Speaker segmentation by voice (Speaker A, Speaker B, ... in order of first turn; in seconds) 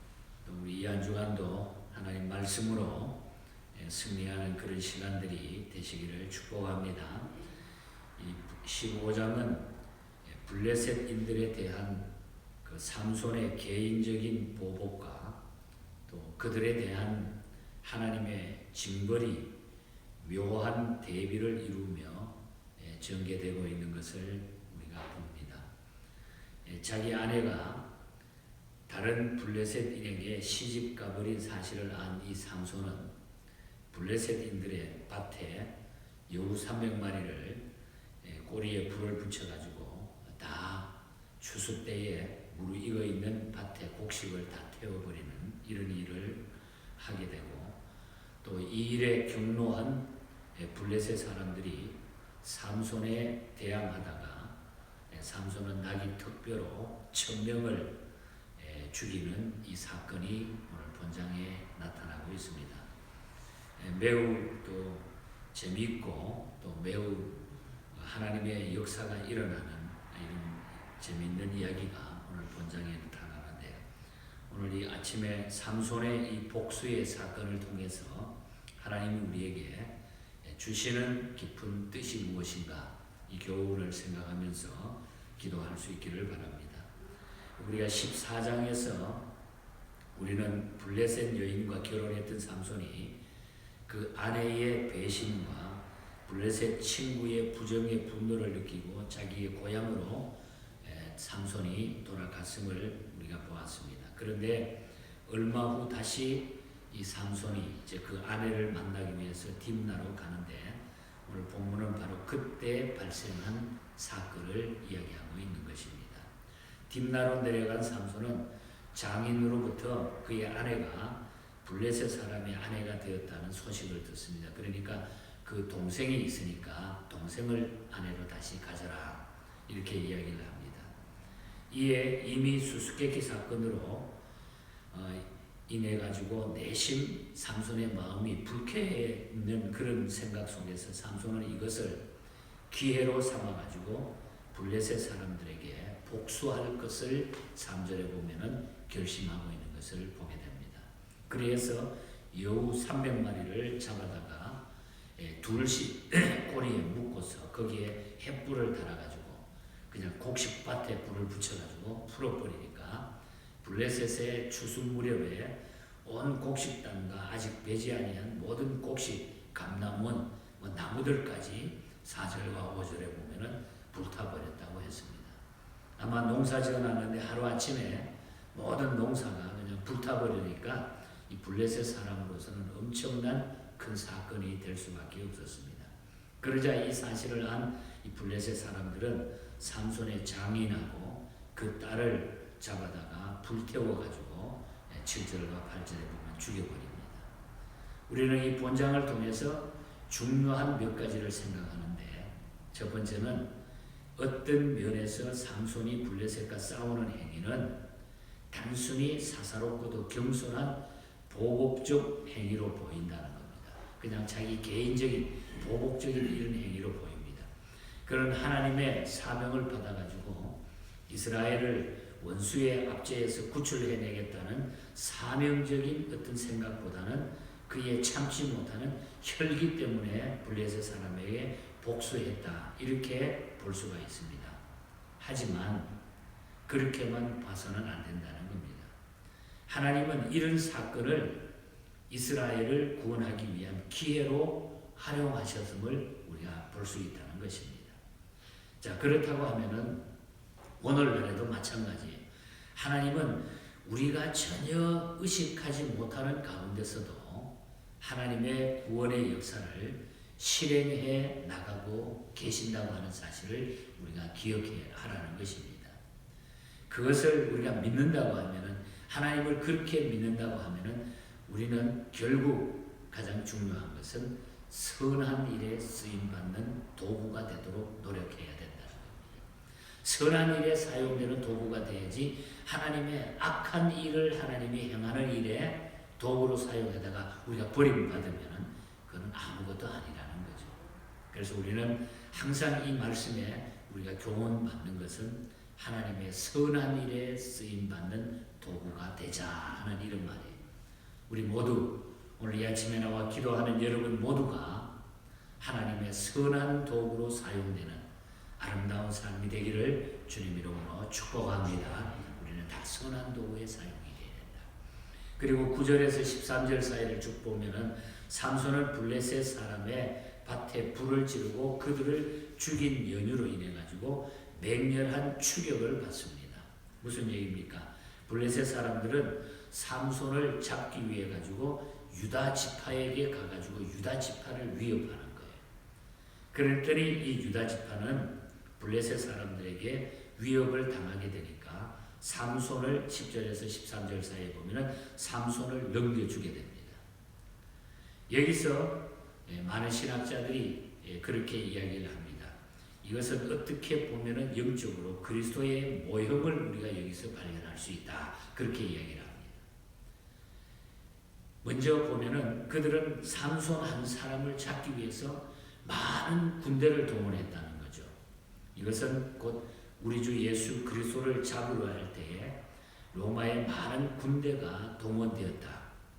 Speaker A: 0.5-3.2, 3.7-7.3, 8.2-9.7, 10.3-12.1, 12.6-15.4, 16.1-19.5, 20.2-25.7, 26.6-27.9, 28.9-33.1, 33.9-35.7, 36.3-37.6, 38.2-46.4, 47.0-47.8, 48.4-50.0, 50.5-54.5, 55.1-58.0, 58.6-62.9, 63.8-73.8, 74.5-79.9, 80.4-86.9, 87.6-89.2, 90.2-93.1, 93.9-100.3, 100.8-116.3, 116.9-130.9, 131.7-134.1, 134.9-142.0, 142.7-154.6, 155.2-163.1, 163.6-175.4, 176.0-197.3, 198.1-203.5, 204.2-207.7, 208.5-210.8, 211.3-217.5, 218.1-220.6, 221.1-234.6, 235.2-235.9, 236.7-238.9, 239.7-241.5, 242.1-248.0, 248.8-250.0, 250.8-252.2, 252.8-266.0, 266.9-279.4, 280.0-290.8, 291.3-300.6, 301.3-304.9, 305.6-308.1, 308.6-314.7, 315.4-335.6, 336.5-347.0, 348.3-359.6, 361.6-368.1, 368.8-372.6, 373.1-375.9